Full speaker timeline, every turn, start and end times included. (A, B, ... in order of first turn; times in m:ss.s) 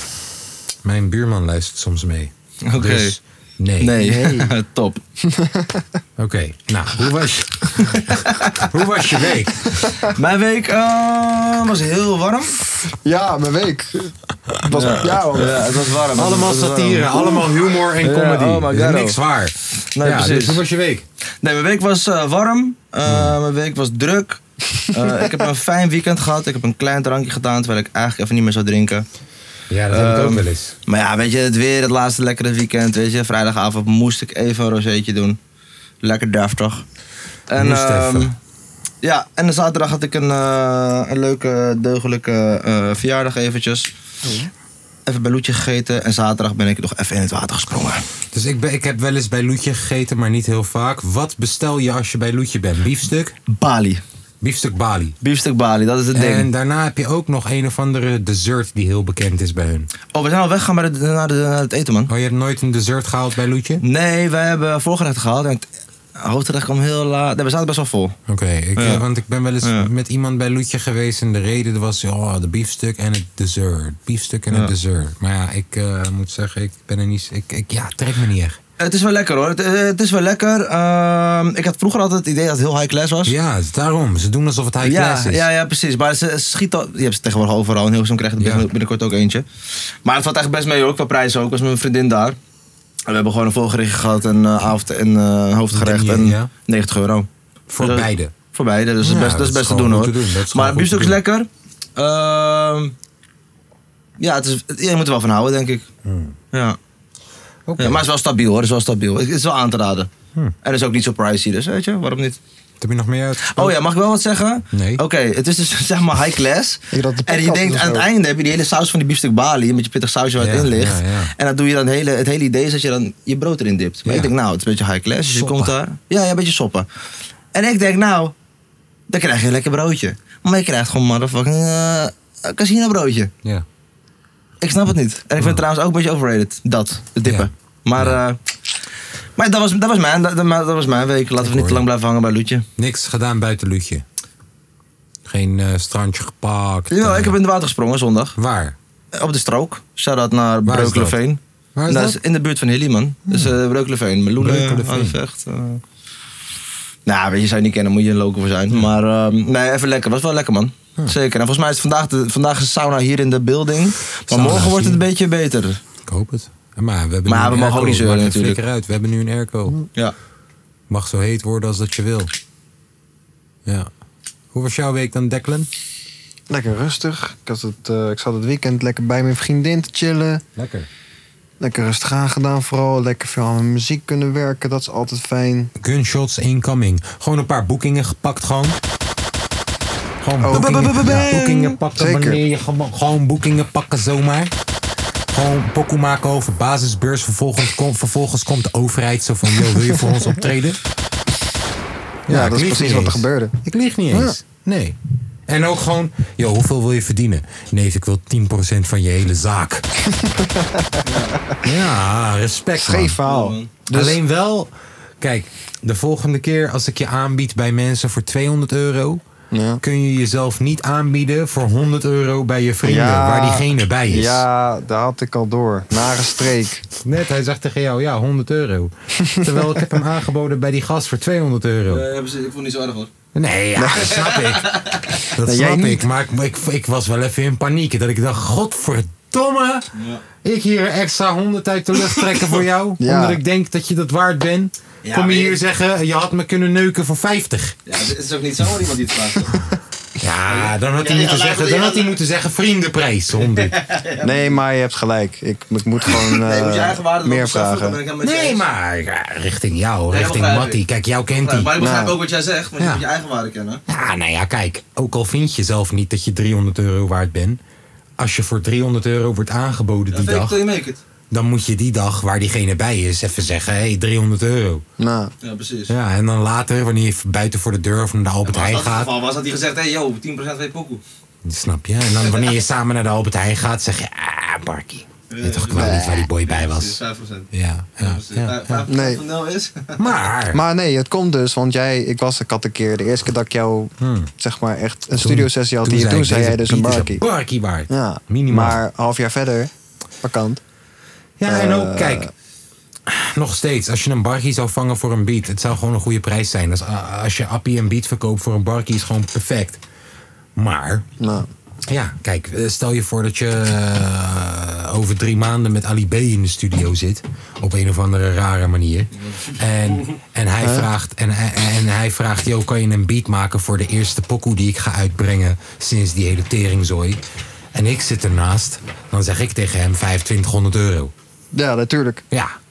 0:00.8-0:04.0 A
0:02.6-0:03.2 B
0:03.8-0:05.0 B
0:04.0-0:04.5 C
0:05.2-0:06.0 C
0:06.2-0:10.0 A
0:07.8-0:08.7 B
0:10.0-0:12.6 B
0:13.0-0:15.9 C
0:14.7-0:15.1 A
0:14.7-0:19.2 B
0:16.2-0:21.0 A
0:20.0-0:20.6 B
0:21.4-0:24.4 B
0:23.0-0:23.4 A
0:24.9-0:29.0 B
0:29.7-0:30.8 A
0:29.9-0:35.4 B
0:36.0-0:36.8 B
0:37.5-0:38.4 B
0:37.6-0:38.3 A
0:39.0-0:43.9 B
0:44.2-0:44.5 C
0:45.1-0:48.0 B
0:48.3-0:53.4 A
0:53.5-0:54.0 B
0:54.4-0:55.2 A
0:55.2-0:56.5 B
0:56.1-0:59.9 A
1:00.1-1:02.1 B
1:02.1-1:03.8 A
1:03.8-1:05.7 B
1:06.2-1:08.2 B
1:08.3-1:18.6 A
1:08.8-1:09.0 B
1:09.6-1:09.9 B
1:18.8-1:23.3 B
1:23.3-1:25.5 A
1:24.8-1:29.4 B
1:28.4-1:28.6 A
1:30.0-1:32.4 B
1:33.1-1:42.9 B
1:35.7-1:36.5 A
1:37.7-1:38.3 A
1:39.0-1:41.2 A
1:44.2-1:45.9 B
1:46.0-1:46.4 A
1:46.5-1:46.8 B
1:47.7-1:48.0 A
1:47.8-1:50.1 B
1:50.6-1:52.4 B
1:52.8-1:53.8 A
1:53.5-2:06.9 B
1:54.7-1:55.0 A
1:56.9-1:58.1 C
2:00.4-2:01.3 A
2:05.4-2:05.7 A
2:07.5-2:08.3 B
2:09.1-2:13.3 B
2:14.6-2:18.4 B
2:17.2-2:18.2 A
2:19.4-2:22.6 B
2:21.4-2:21.8 A
2:22.8-2:24.0 A
2:25.3-2:27.4 A
2:26.9-2:28.4 B
2:28.4-2:28.8 A
2:29.1-2:35.8 B
2:30.7-2:31.2 A
2:31.8-2:32.2 A
2:33.3-2:33.5 A
2:34.4-2:35.2 A
2:37.1-2:45.8 B
2:44.2-2:45.0 A
2:46.1-2:49.8 A
2:47.3-2:48.6 B
2:50.9-2:52.3 A
2:54.5-2:55.7 A
2:56.5-3:00.4 C
3:00.6-3:00.9 A
3:01.6-3:05.7 C
3:05.8-3:08.8 A
3:10.2-3:14.5 A
3:10.4-3:11.1 C
3:10.5-3:11.8 B
3:12.0-3:12.4 C
3:15.3-3:20.8 A
3:22.3-3:25.0 A
3:22.3-3:23.6 C
3:25.5-3:29.8 A
3:30.0-3:31.6 C
3:31.0-3:31.4 B
3:31.6-3:33.2 A
3:32.8-3:34.2 C
3:33.2-3:33.7 B
3:33.9-3:39.2 A
3:39.5-3:39.8 C
3:39.8-3:44.4 A
3:42.8-3:46.8 C
3:47.0-3:52.0 A
3:49.2-3:49.8 C
3:51.9-3:53.1 B
3:53.4-3:59.9 A
3:53.8-3:54.1 C
3:54.0-3:55.2 B
3:55.4-3:56.1 C
3:59.9-4:00.2 B
4:00.4-4:07.8 A
4:03.0-4:03.4 C
4:05.0-4:05.6 B
4:07.9-4:09.6 B
4:10.2-4:13.8 A
4:10.5-4:12.2 B
4:13.4-4:14.6 B
4:14.2-4:18.0 C
4:16.1-4:18.6 B
4:18.2-4:21.7 A
4:20.1-4:23.8 B
4:21.8-4:22.2 C
4:23.9-4:27.6 A
4:28.2-4:30.6 A
4:30.1-4:31.0 B
4:31.3-4:34.8 A
4:35.0-4:35.3 C
4:35.4-4:35.9 B
4:35.9-4:39.1 A
4:38.5-4:41.0 B
4:41.4-4:47.0 A
4:42.2-4:42.5 B
4:45.3-4:47.5 B
4:45.7-4:46.3 C
4:47.5-4:48.8 A
4:48.0-4:50.0 B
4:48.9-4:49.2 C
4:50.0-4:50.6 A
4:50.5-4:57.2 C
4:54.0-4:54.3 A
4:55.2-4:58.8 A
4:57.9-4:59.7 C
5:00.2-5:00.6 C
5:01.4-5:02.3 A
5:01.5-5:02.3 C
5:03.1-5:09.8 A
5:10.6-5:11.0 A
5:11.2-5:11.5 C
5:11.9-5:27.2 A
5:19.2-5:20.1 B
5:20.6-5:20.9 C
5:27.7-5:31.1 A
5:31.5-5:32.2 C